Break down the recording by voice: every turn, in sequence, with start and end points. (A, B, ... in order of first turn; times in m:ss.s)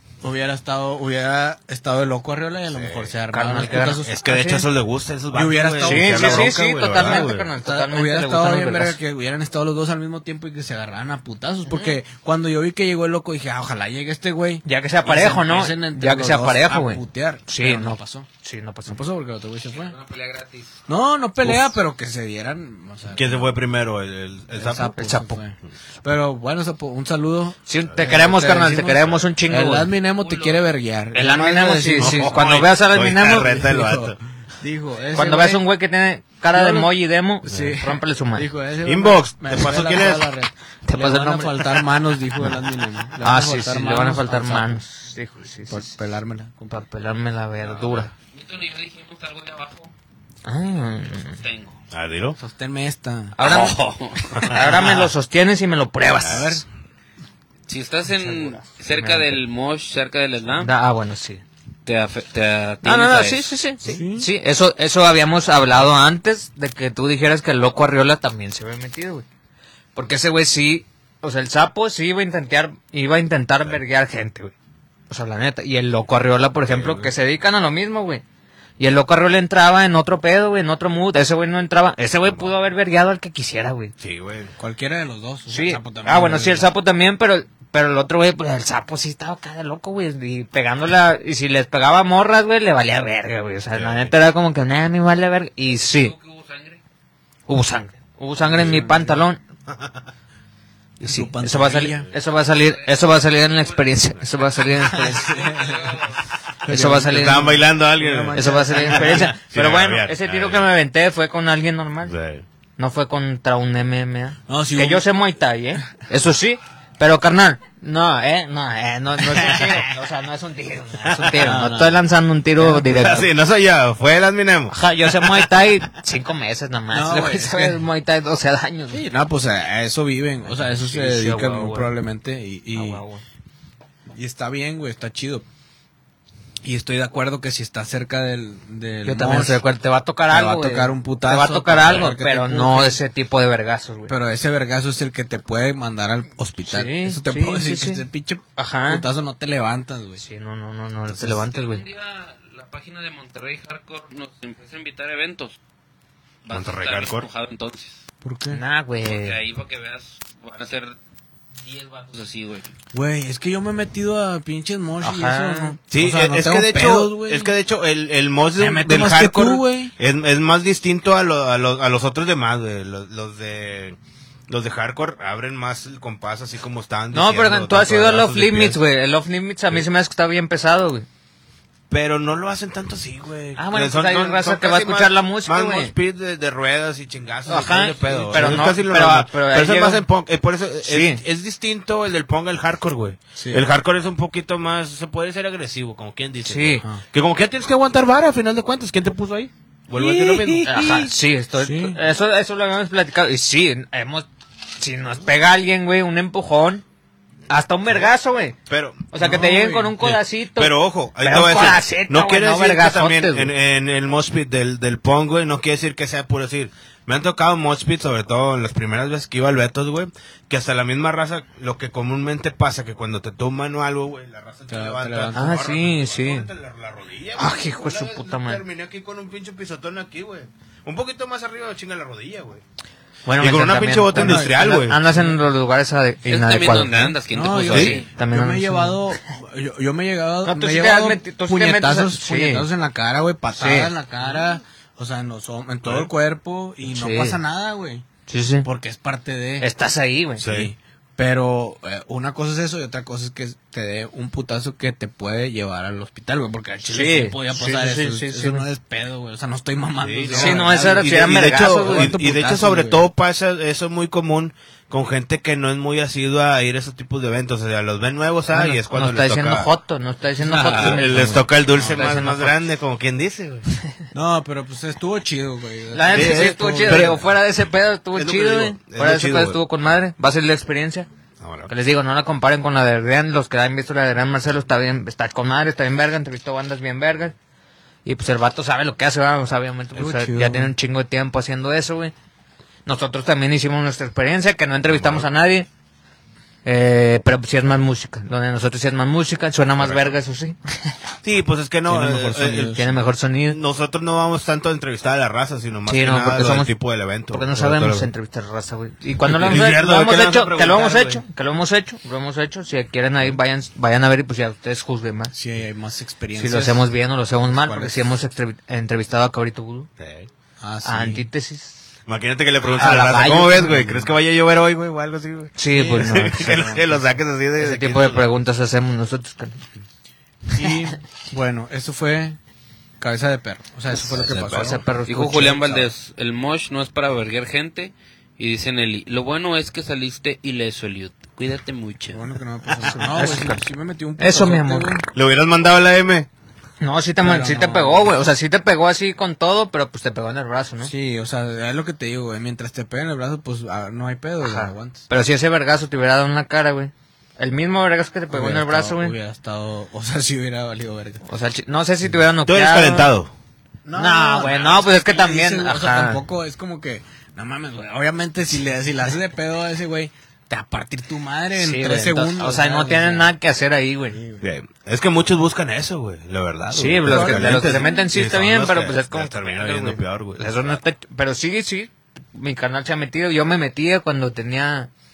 0:00.2-0:04.7 A
0:02.7-0:03.1 B
0:03.3-0:04.0 C
0:04.0-0:07.5 B
0:05.3-0:18.3 A
0:05.8-0:09.0 C
0:11.7-0:12.0 C
0:14.6-0:19.0 C
0:18.8-0:20.0 A
0:19.7-0:20.7 D
0:20.9-0:23.5 A
0:21.4-0:21.7 B
0:23.1-0:25.0 B
0:24.5-0:32.4 A
0:25.0-0:25.4 C
0:27.7-0:29.9 C
0:30.2-0:30.6 D
0:31.1-0:33.7 C
0:32.0-0:34.2 B
0:33.2-0:35.6 A
0:35.1-0:38.5 C
0:36.5-0:44.8 A
0:38.8-0:40.2 B
0:40.8-0:41.8 C
0:43.2-0:45.9 C
0:45.7-0:46.8 A
0:46.7-0:48.1 C
0:48.2-0:49.9 D
0:50.4-0:51.4 C
0:51.1-0:51.8 D
0:51.9-0:52.4 B
0:52.4-0:53.4 A
0:53.4-0:53.8 C
0:53.4-0:54.7 D
0:54.3-0:54.9 B
0:54.4-0:56.6 C
0:56.2-0:56.6 A
0:57.7-1:00.7 D
0:58.2-0:59.4 C
1:00.6-1:01.4 C
1:01.8-1:03.5 D
1:02.8-1:09.2 C
1:03.8-1:04.3 A
1:09.9-1:14.5 C
1:15.1-1:18.2 C
1:16.6-1:17.1 B
1:18.8-1:23.9 C
1:22.2-1:22.5 B
1:24.0-1:24.5 B
1:24.6-1:26.7 A
1:25.5-1:36.1 C
1:33.8-1:34.1 B
1:35.8-1:36.8 D
1:37.5-1:39.4 C
1:38.4-1:39.2 A
1:41.0-1:42.1 A
1:41.0-1:45.4 C
1:42.6-1:46.2 D
1:44.9-1:49.4 A
1:46.7-1:47.6 C
1:47.0-1:50.7 B
1:48.3-1:52.2 C
1:52.0-1:52.4 B
1:52.8-2:03.3 C
1:54.5-1:55.1 A
1:59.3-1:59.7 A
2:01.1-2:01.5 B
2:01.3-2:02.0 A
2:02.6-2:03.1 A
2:02.7-2:04.8 B
2:04.7-2:09.0 C
2:06.9-2:07.8 A
2:08.9-2:13.0 A
2:10.6-2:11.9 C
2:12.7-2:13.2 C
2:14.1-2:15.4 A
2:16.6-2:19.6 A
2:19.0-2:24.2 C
2:20.3-2:23.0 A
2:24.1-2:30.2 A
2:26.7-2:28.0 C
2:28.6-2:29.0 C
2:30.2-2:31.8 C
2:31.1-2:31.4 A
2:31.5-2:35.6 D
2:36.4-2:38.0 D
2:36.5-2:37.3 B
2:38.2-2:38.6 A
2:38.5-2:39.4 C
2:39.0-2:41.0 D
2:41.6-2:42.7 D
2:42.9-2:47.5 A
2:45.0-2:45.8 C
2:45.9-2:54.0 B
2:48.6-2:49.9 A
2:54.5-2:58.8 B
2:57.1-3:01.0 C
3:01.9-3:21.1 B
3:03.6-3:05.9 C
3:07.4-3:10.0 C
3:08.1-3:08.7 A
3:10.8-3:11.2 C
3:13.4-3:13.6 A
3:16.4-3:16.8 C
3:20.0-3:20.9 A
3:20.5-3:26.8 C
3:21.6-3:22.0 A
3:27.5-3:28.6 C
3:28.7-3:29.1 B
3:29.1-3:33.5 C
3:29.2-3:30.0 A
3:30.0-3:52.6 B
3:44.7-3:45.5 A
3:45.3-3:46.5 C
3:47.4-3:48.6 C
3:53.2-3:57.2 C
3:53.4-3:55.0 B
3:54.1-3:54.6 A
3:56.2-3:58.1 D
3:57.3-4:08.0 A
3:57.7-3:59.0 C
4:00.4-4:02.7 C
4:03.6-4:03.9 C
4:05.8-4:06.1 B
4:06.8-4:07.4 C
4:08.3-4:08.7 C
4:08.6-4:09.7 A
4:09.6-4:10.4 C
4:10.4-4:23.1 A
4:10.4-4:10.7 B
4:16.8-4:18.6 C
4:20.0-4:29.7 B
4:20.3-4:22.2 C
4:28.5-4:32.6 C
4:30.4-4:31.4 A
4:30.7-4:33.6 B
4:34.1-4:37.2 A
4:35.9-4:41.1 C
4:36.1-4:37.3 B
4:38.1-4:39.6 B
4:41.4-4:41.7 B
4:41.7-4:47.3 C
4:48.0-4:52.1 C
4:49.9-4:50.7 A
4:52.8-4:55.7 C
4:54.9-4:55.3 B
4:56.6-5:01.0 C
4:59.8-5:00.1 B
5:01.2-5:02.9 B
5:01.8-5:02.8 A
5:02.7-5:03.6 C
5:03.5-5:08.1 B
5:05.9-5:06.7 C
5:07.3-5:15.3 C
5:09.2-5:11.2 B
5:15.3-5:16.8 A
5:16.3-5:19.9 C
5:17.5-5:18.1 A
5:20.0-5:20.3 B
5:20.6-5:21.2 A
5:20.8-5:21.8 C
5:22.1-5:28.3 B
5:22.6-5:24.1 C
5:25.6-5:26.8 C
5:25.7-5:27.0 A
5:27.6-5:29.6 C
5:30.5-5:32.4 A
5:33.0-5:34.9 A
5:33.9-5:35.8 C
5:34.0-5:34.8 B
5:35.0-5:42.2 D
5:35.4-5:35.8 A
5:42.1-5:45.0 A
5:42.8-5:43.6 C
5:44.2-5:45.0 C
5:45.1-5:46.3 B
5:46.8-5:50.9 C
5:47.2-5:48.1 A
5:50.8-5:55.0 A
5:54.4-5:59.1 C
5:58.3-6:01.2 A
6:01.2-6:03.1 C
6:02.4-6:03.3 B
6:03.8-6:13.3 A
6:03.9-6:06.2 C
6:11.5-6:14.2 C
6:14.1-6:14.4 A
6:14.4-6:20.8 B
6:16.7-6:24.9 C
6:17.0-6:17.9 A